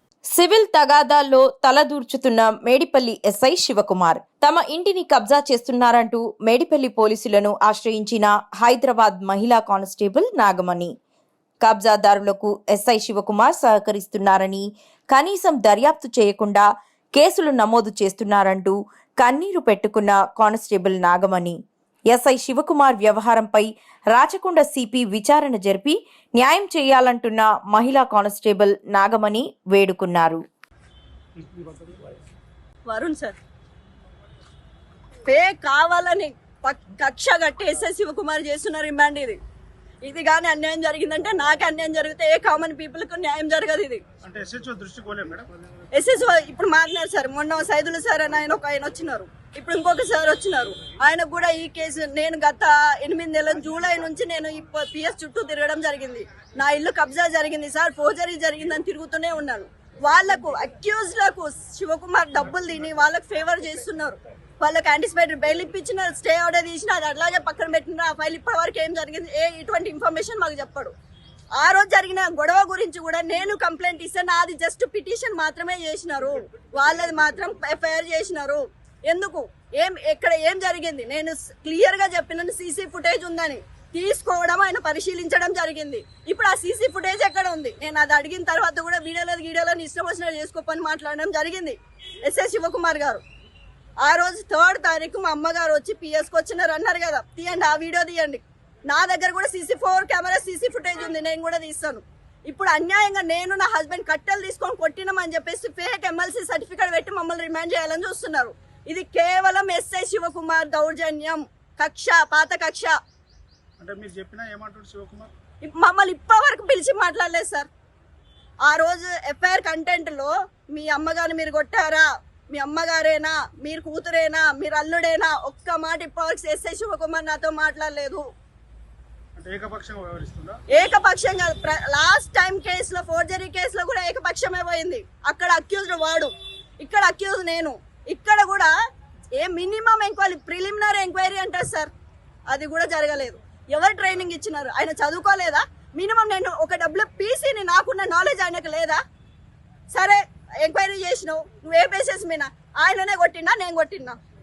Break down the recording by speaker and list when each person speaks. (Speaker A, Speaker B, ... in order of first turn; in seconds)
Speaker A: 0.3-10.9, 11.6-21.6, 22.1-30.4
Speaker B: 32.9-33.4, 35.2-39.4, 40.0-44.0, 45.9-70.9, 71.6-93.2, 94.0-112.9, 115.6-117.7, 118.7-128.2, 130.7-138.7, 139.4-141.9, 142.5-149.0, 149.9-154.2
Speaker C: 44.2-45.5, 113.8-115.3, 129.3-130.6